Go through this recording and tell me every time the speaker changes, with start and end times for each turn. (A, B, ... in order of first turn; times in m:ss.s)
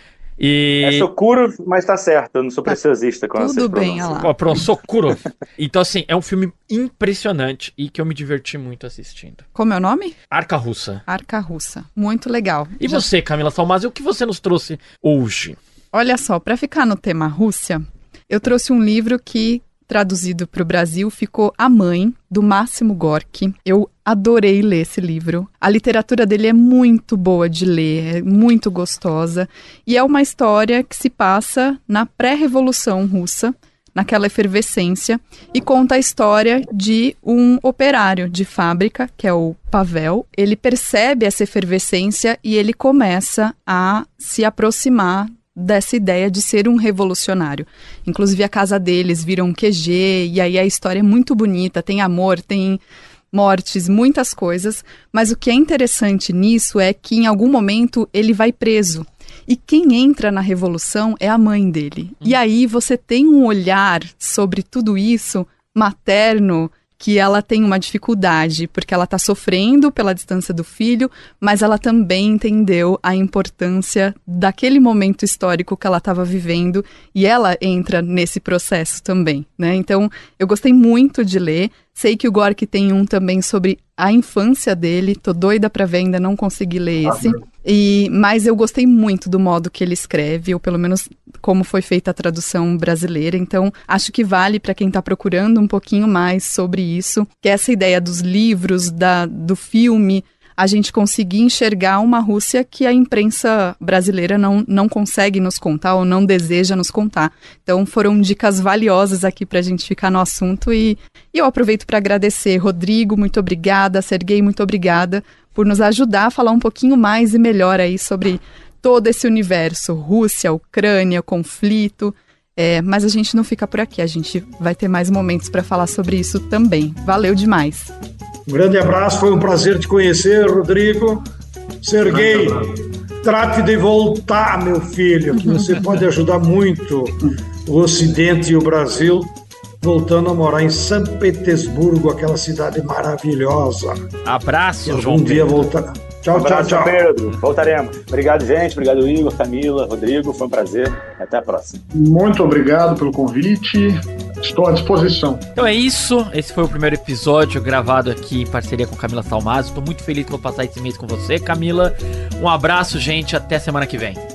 0:00.4-0:01.1 A
0:00.8-0:04.2 B
0:03.3-0:04.3 C
0:04.2-0:09.4 A
0:09.5-0:10.2 C
0:10.3-0:11.0 A
0:11.1-0:13.0 C
0:12.8-0:15.6 A
0:15.9-0:52.8 C
0:53.3-2:07.9 C
2:08.4-2:11.2 D
2:11.8-2:24.0 D
2:12.1-2:12.6 E
2:24.2-2:25.7 A
2:24.8-2:27.0 D
2:26.3-2:31.8 B
2:31.9-2:35.4 E
2:35.6-2:44.2 A